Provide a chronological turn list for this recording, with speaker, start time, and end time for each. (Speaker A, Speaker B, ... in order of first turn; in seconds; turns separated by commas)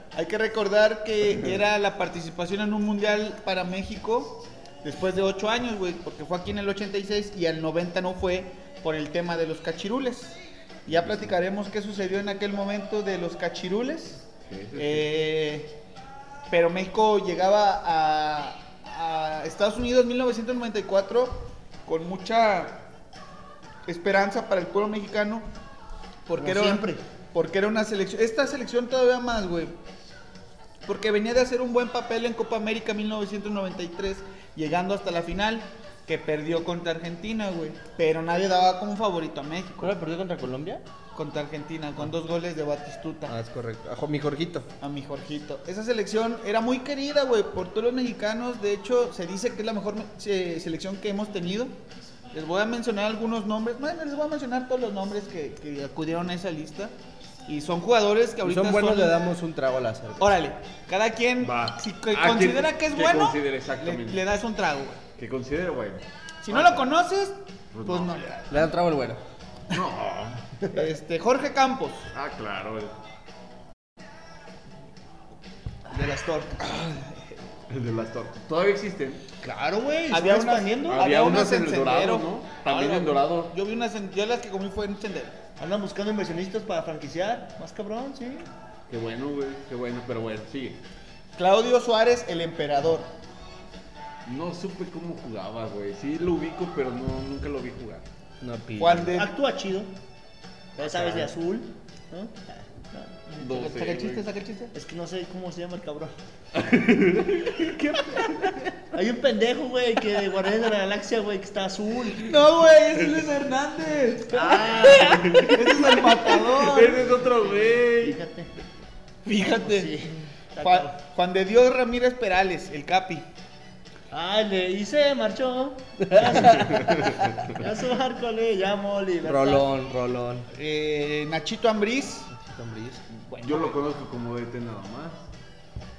Speaker A: 0.1-14.2, Speaker B: 14.5-15.1, Speaker A: 14.8-15.8, Speaker A: 16.5-22.8, Speaker A: 23.9-25.4, Speaker A: 26.3-29.7, Speaker C: 26.4-27.0, Speaker A: 30.9-39.9, Speaker D: 39.8-40.8, Speaker A: 41.1-43.3, Speaker D: 43.3-44.7, Speaker A: 44.8-51.7, Speaker A: 52.3-56.9, Speaker A: 57.5-59.1, Speaker D: 58.4-60.3, Speaker A: 60.2-65.0, Speaker B: 61.4-64.2, Speaker B: 65.2-66.8, Speaker A: 66.4-68.7, Speaker B: 67.7-68.3, Speaker D: 68.5-69.2, Speaker B: 69.7-70.5, Speaker A: 70.7-72.1, Speaker B: 72.1-72.9, Speaker C: 75.9-76.6, Speaker A: 76.6-77.3, Speaker B: 77.7-79.2, Speaker C: 79.4-81.0, Speaker A: 80.1-85.4, Speaker B: 80.9-83.5, Speaker C: 85.6-88.5, Speaker B: 88.9-90.8, Speaker A: 91.3-93.1, Speaker B: 94.2-98.0, Speaker D: 98.4-99.1, Speaker A: 98.8-99.3, Speaker C: 99.1-99.9, Speaker C: 100.8-103.2, Speaker B: 100.8-101.3, Speaker B: 103.4-104.3, Speaker A: 103.4-104.7, Speaker D: 103.5-104.2, Speaker C: 104.7-106.2, Speaker B: 106.5-108.6, Speaker C: 108.9-112.4, Speaker A: 112.2-117.1, Speaker C: 114.3-118.5, Speaker B: 114.9-118.2, Speaker A: 119.2-123.3, Speaker C: 119.6-120.9, Speaker C: 124.1-129.7, Speaker D: 126.1-126.9, Speaker B: 126.8-127.2, Speaker D: 129.2-130.5, Speaker A: 130.5-132.3, Speaker D: 132.3-133.0, Speaker A: 133.3-133.8, Speaker B: 133.4-135.2